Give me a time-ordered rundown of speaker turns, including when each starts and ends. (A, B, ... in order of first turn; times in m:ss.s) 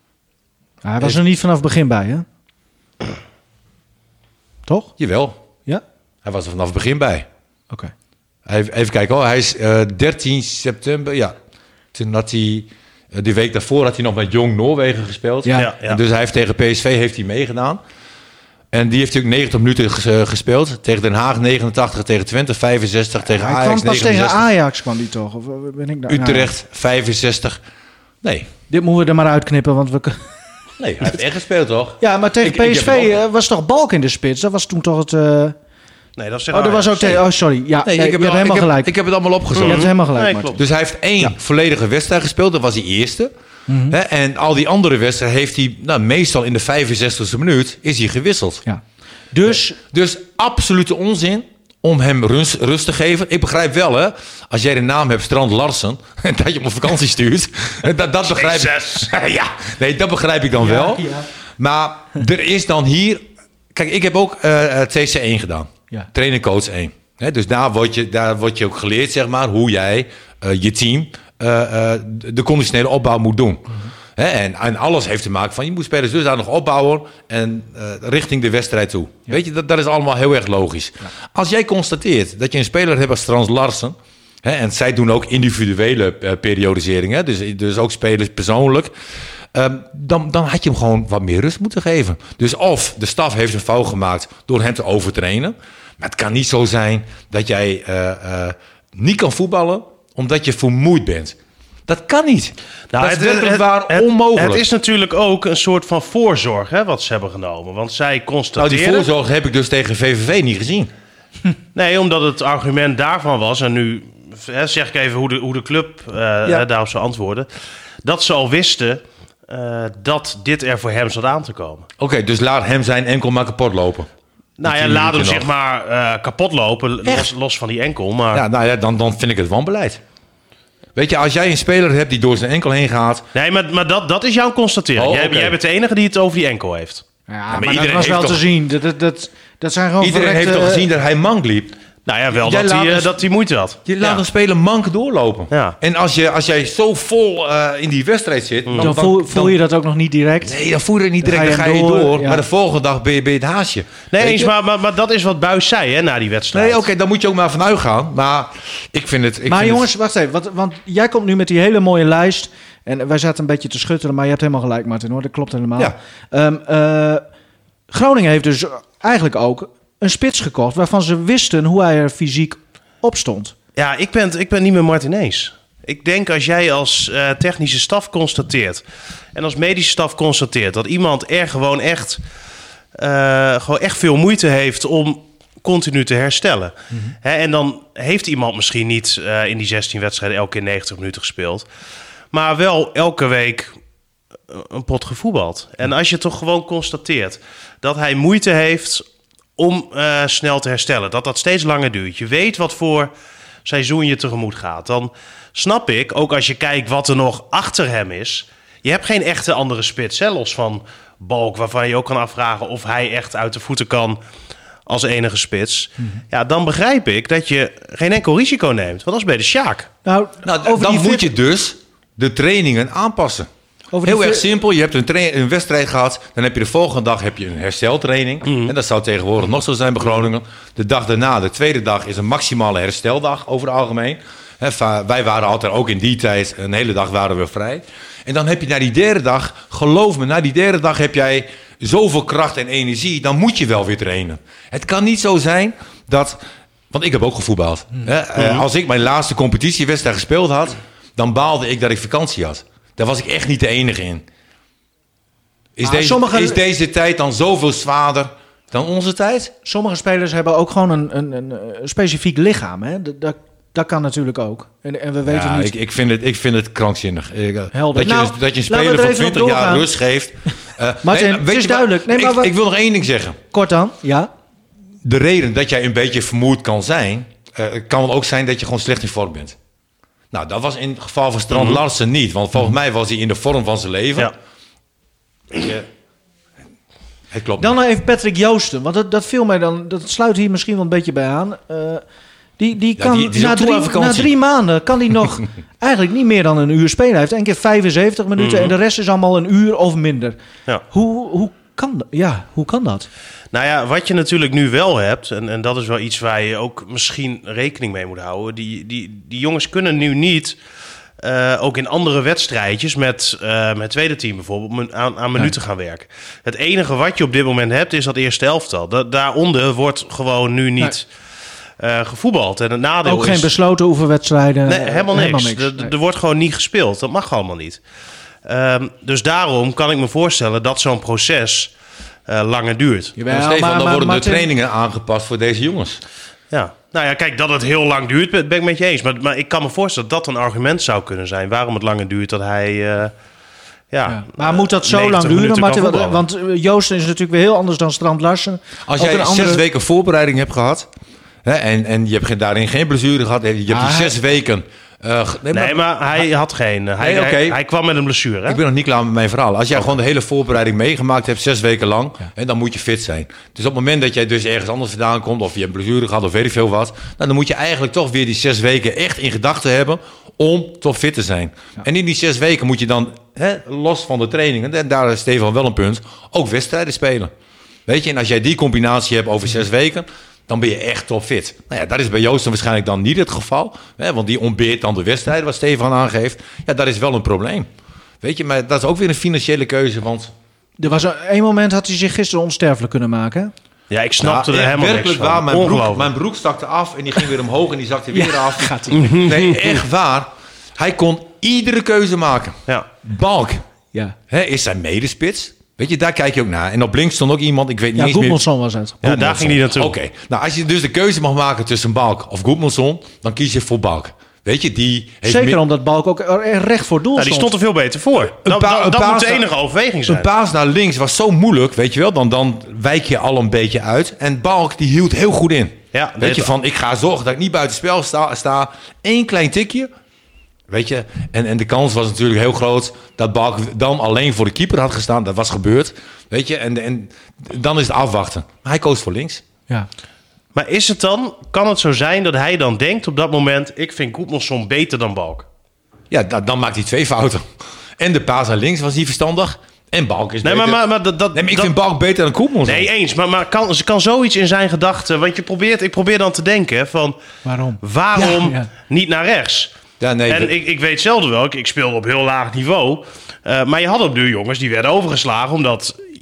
0:00.8-0:02.2 A
0:05.0-0:05.4 B
0:06.2-0:07.3 B
0:08.5-0:11.4 B
0:11.9-0:17.8 B
0:15.4-0:15.7 A
0:15.6-0:16.0 C
0:18.7-0:24.5 B
0:23.3-0:26.5 A
0:26.1-0:27.6 B
0:28.2-0:28.5 B
0:28.7-0:30.2 A
0:30.8-0:33.2 B
0:32.0-0:35.6 A
0:36.2-0:37.2 C
0:36.5-0:38.9 A
0:37.8-0:39.9 B
0:39.6-0:40.6 C
0:39.6-0:40.6 A
0:40.6-0:43.3 B
0:43.7-0:44.0 A
0:43.9-0:48.6 B
0:48.7-0:49.8 A
0:49.8-1:28.9 B
0:58.3-0:59.1 C
1:00.6-1:01.3 A
1:29.5-1:41.4 B
1:41.9-1:44.7 B
1:42.9-1:49.1 C
1:48.6-1:50.9 B
1:51.8-1:57.5 C
1:58.0-2:01.9 C
2:02.0-2:04.1 B
2:04.6-2:08.4 C
2:04.6-2:05.5 B
2:07.0-2:07.3 B
2:08.3-2:10.0 B
2:11.0-2:13.3 B
2:13.3-2:17.0 C
2:15.0-2:15.6 B
2:17.3-2:20.9 A
2:17.5-2:18.4 B
2:20.0-2:21.8 B
2:22.1-2:24.2 C
2:22.3-2:23.2 B
2:23.9-2:29.6 B
2:25.5-2:25.8 C
2:28.7-2:28.9 C
2:28.8-2:30.6 A
2:30.4-2:34.5 B
2:31.2-2:32.4 A
2:34.1-2:36.8 C
2:36.5-2:39.9 B
2:39.5-2:47.2 A
2:47.9-2:53.6 A
2:53.8-2:58.8 C
2:59.4-3:02.2 C
3:03.0-3:11.7 C
3:12.3-3:13.7 C
3:14.5-3:19.0 C
3:19.6-3:23.1 C
3:23.7-3:34.2 C
3:34.9-3:39.9 C
3:40.0-3:41.3 A
3:40.4-3:43.5 B
3:43.9-3:44.5 A
3:44.0-4:06.4 B
3:48.5-3:48.7 C
4:06.9-4:14.2 B
4:08.4-4:08.7 C
4:15.8-4:19.5 B
4:15.8-4:16.6 A
4:19.6-4:25.8 A
4:25.3-4:33.4 B
4:27.7-4:29.9 A
4:31.0-4:32.5 A
4:33.5-4:34.3 A
4:35.0-4:39.6 B
4:40.3-4:44.3 B
4:41.5-4:41.8 C
4:45.5-4:45.9 B
4:47.3-4:47.8 B
4:47.6-4:52.0 A
4:52.6-5:00.4 A
4:53.0-4:54.3 B
4:58.4-4:58.8 C
5:00.9-5:03.1 A
5:03.5-5:10.6 C
5:11.2-5:21.1 C
5:21.8-5:23.5 C
5:23.0-5:25.9 A
5:24.7-5:27.8 C
5:28.5-5:31.7 C
5:32.3-5:33.2 C
5:33.2-5:34.5 A
5:33.3-5:36.0 B
5:36.5-5:43.1 C
5:43.9-5:46.2 C
5:44.1-5:49.6 A
5:48.9-5:50.9 B
5:51.4-5:55.8 B
5:53.7-5:54.2 A
5:55.5-5:58.6 C
5:57.0-5:57.6 B
5:58.5-6:17.3 B
6:17.9-6:27.7 B
6:28.2-6:30.3 B
6:30.8-6:33.5 A
6:33.9-6:36.1 C
6:34.2-6:43.6 B
6:38.1-6:39.2 A
6:38.9-6:39.8 C
6:44.3-6:48.4 B
6:48.0-6:49.0 A
6:49.0-6:55.6 B
6:49.0-6:49.9 C
6:55.2-6:57.5 A
6:57.2-7:00.3 C
6:58.4-6:59.5 B
7:00.1-7:09.9 B
7:05.9-7:06.5 C
7:10.7-7:19.4 B
7:20.5-7:25.5 C
7:26.1-7:27.5 B
7:28.0-7:30.8 B
7:30.4-7:31.8 C
7:31.3-7:32.9 B
7:32.7-7:37.2 C
7:37.4-7:38.7 A
7:37.8-7:39.7 C
7:40.0-7:40.5 B
7:40.3-7:46.0 C